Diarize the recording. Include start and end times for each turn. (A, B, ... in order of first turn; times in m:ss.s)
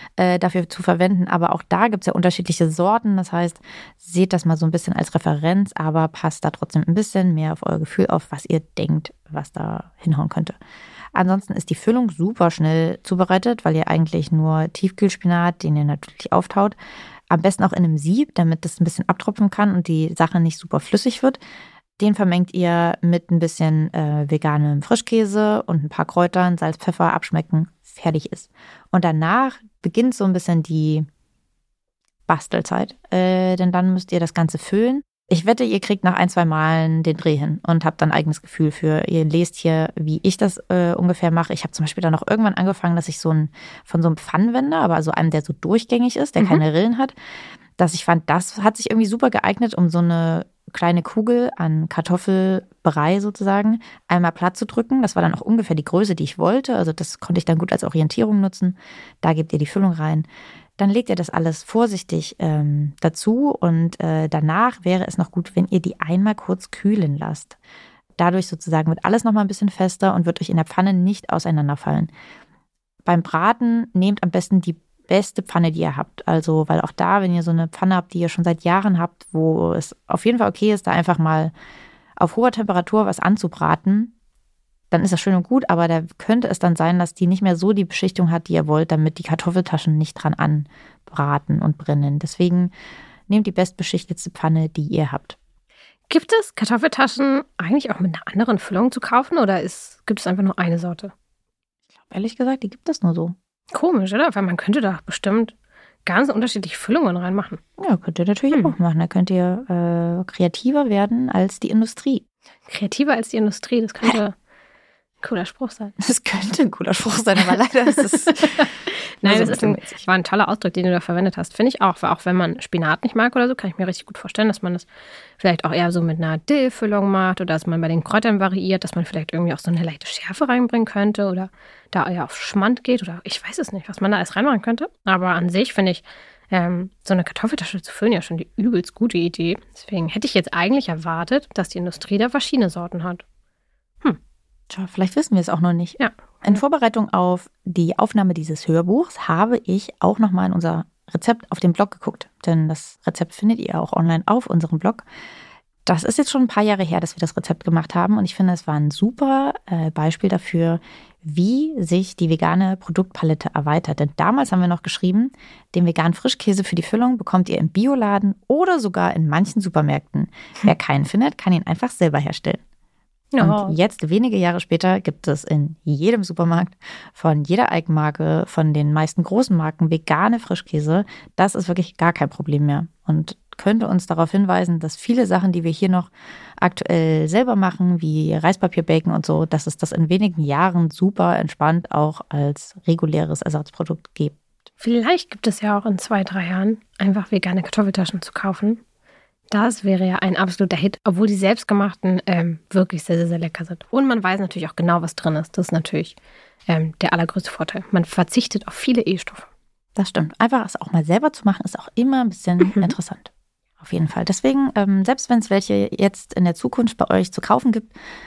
0:00.2-0:10.6 A
0:11.1-0:16.8 A
0:17.3-0:21.4 A
0:22.0-0:31.1 A
0:32.3-0:47.2 A
0:46.4-0:46.6 B
0:47.8-1:00.3 A
1:00.8-1:07.6 A
1:08.2-1:12.1 A
1:13.1-1:21.5 A
1:22.2-1:24.1 A
1:24.9-1:32.7 A
1:33.3-1:35.4 A
1:36.1-1:41.1 B
1:42.0-1:43.4 A
1:43.7-1:45.5 B
1:46.0-1:47.6 B
1:47.8-1:52.2 A
1:52.7-1:54.4 B
1:55.2-1:55.9 B
1:56.0-1:58.7 A
1:58.5-2:23.2 B
1:59.2-2:00.0 A
2:24.7-2:35.0 A
2:26.0-2:26.6 B
2:35.9-2:52.6 A
2:53.3-2:53.8 B
2:53.4-3:14.4 A
3:14.8-3:18.8 B
3:19.5-3:26.2 B
3:26.7-3:29.5 B
3:30.0-3:37.9 A
3:32.6-3:32.9 B